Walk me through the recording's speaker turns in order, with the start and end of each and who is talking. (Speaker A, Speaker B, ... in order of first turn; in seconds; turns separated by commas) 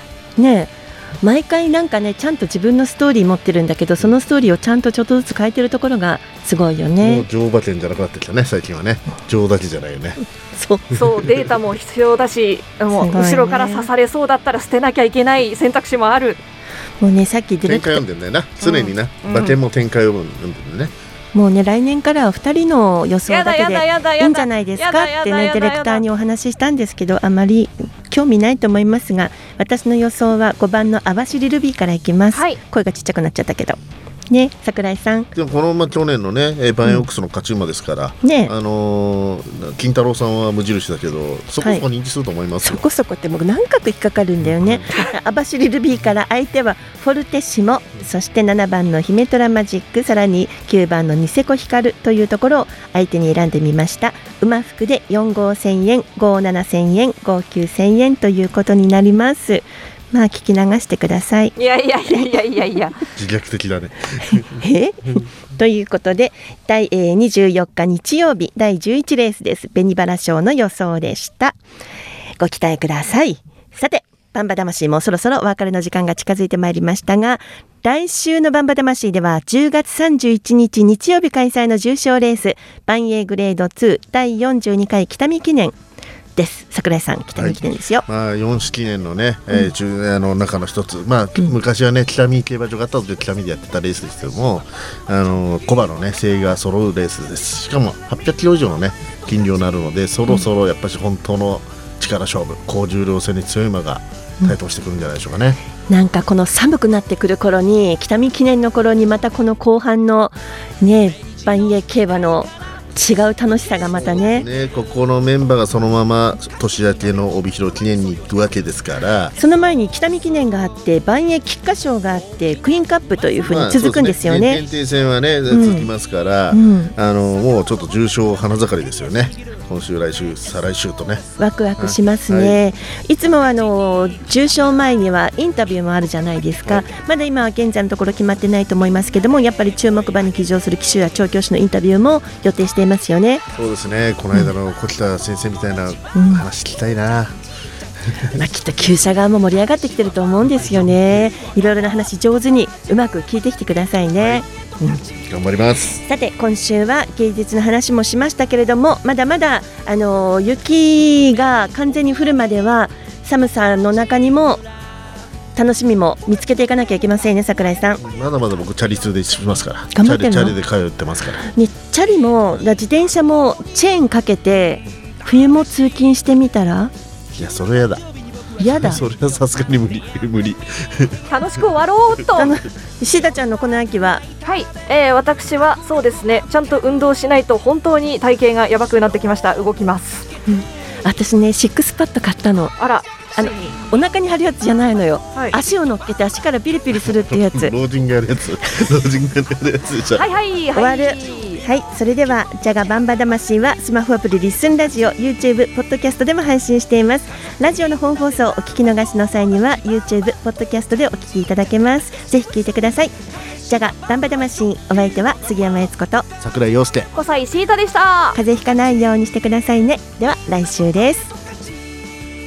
Speaker A: 0.4-7.2, Speaker B: 7.0-10.2, Speaker A: 10.6-11.0, Speaker C: 10.9-16.4, Speaker A: 12.9-13.9, Speaker A: 17.0-18.0, Speaker B: 17.7-20.9, Speaker C: 18.6-19.6, Speaker A: 21.3-33.8, Speaker C: 23.3-26.1, Speaker C: 32.3-32.6, Speaker A: 34.3-35.3, Speaker B: 35.4-42.8, Speaker A: 38.2-38.5, Speaker A: 42.6-61.5, Speaker B: 44.4-44.9, Speaker C: 61.6-63.0, Speaker B: 63.2-64.4, Speaker A: 64.4-71.6, Speaker A: 72.4-85.8, Speaker A: 86.4-88.1, Speaker B: 87.3-105.6, Speaker A: 105.9-114.5, Speaker B: 113.9-119.3, Speaker A: 119.4-124.6, Speaker B: 123.4-131.2, Speaker A: 125.5-125.9, Speaker A: 126.5-126.9, Speaker A: 131.4-143.4, Speaker B: 131.8-132.6, Speaker B: 143.6-147.4, Speaker A: 146.2-146.4, Speaker A: 148.3-155.0, Speaker B: 154.2-154.4, Speaker B: 155.2-156.0, Speaker A: 155.9-164.6, Speaker A: 165.6-168.0, Speaker B: 168.0-171.5, Speaker A: 169.9-170.6, Speaker A: 171.6-176.9, Speaker B: 177.3-178.0, Speaker A: 178.6-179.0, Speaker B: 178.6-181.2, Speaker C: 181.3-182.5, Speaker A: 182.4-184.2, Speaker C: 184.4-190.3, Speaker A: 190.5-192.7, Speaker C: 192.8-193.8, Speaker A: 193.3-197.7, Speaker B: 197.1-200.3, Speaker C: 200.1-201.6, Speaker A: 200.8-216.3, Speaker B: 216.4-217.1, Speaker C: 217.1-218.4, Speaker A: 218.3-221.3